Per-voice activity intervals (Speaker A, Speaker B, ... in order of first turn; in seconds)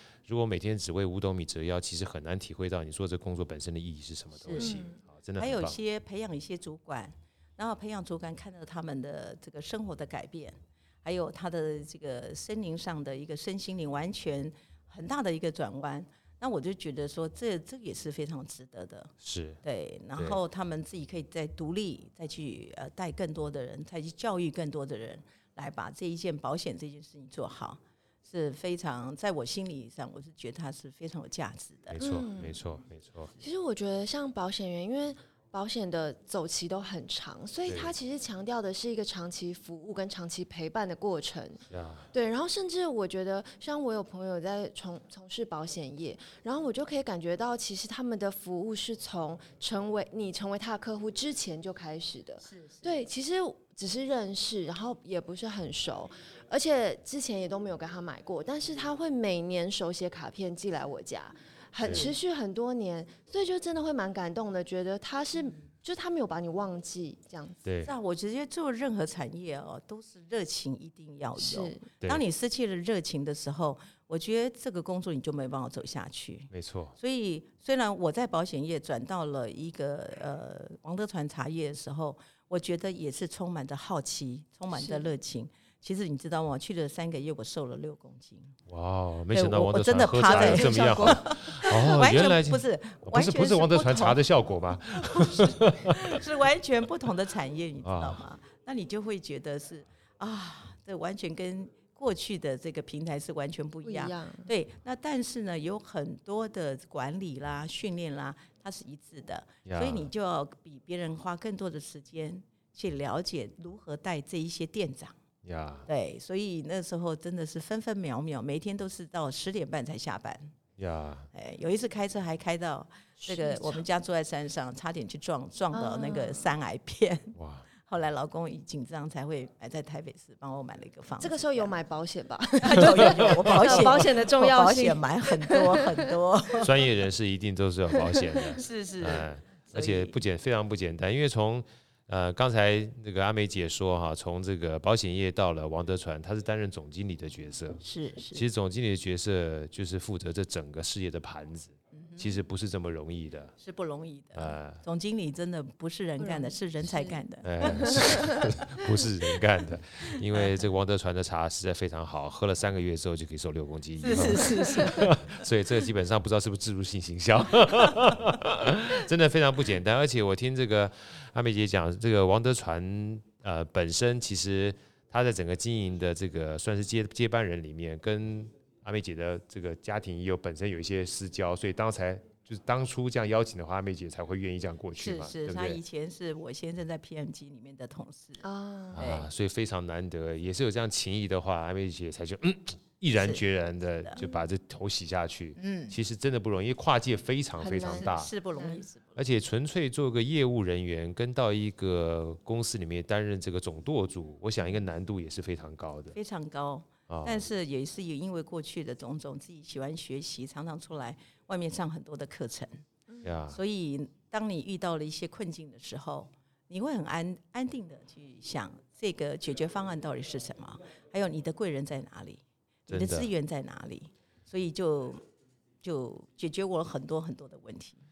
Speaker A: 0.3-5.8, 19.2-19.6, 31.9-33.3, 37.7-37.9, 41.7-42.1, 61.8-62.1, 67.7-67.9, 76.5-77.0, 88.7-96.2, 97.8-98.2, 109.7-110.1, 115.4-115.9, 120.8-121.3, 127.3-127.7, 133.0-133.9, 136.6-153.5, 154.3-154.8, 157.4-185.8, 188.9-198.3, 199.2-206.2, 207.1-207.5, 213.2-213.6, 222.9-223.3
Speaker B: 4.4-4.8, 5.4-19.1, 19.6-32.0, 52.4-53.1, 67.8-88.6, 89.3-94.2, 94.9-115.2, 115.9-120.5, 121.3-131.7, 132.6-136.7, 138.4-140.2, 147.8-148.4, 151.9-152.4, 153.6-158.6, 160.3-160.6, 164.0-165.2, 184.9-188.4, 189.0-189.3, 193.2-193.4, 195.6-196.0, 197.8-199.2, 206.2-212.8, 213.5-225.2, 225.8-228.0
Speaker C: 4.6-5.0, 32.0-32.6, 33.4-41.6, 42.1-67.6, 71.4-71.8, 84.7-85.1, 90.3-91.3, 103.8-104.5, 123.2-123.8, 125.7-126.5, 131.2-136.2, 156.2-158.5, 164.2-165.0, 188.4-189.1, 197.6-198.8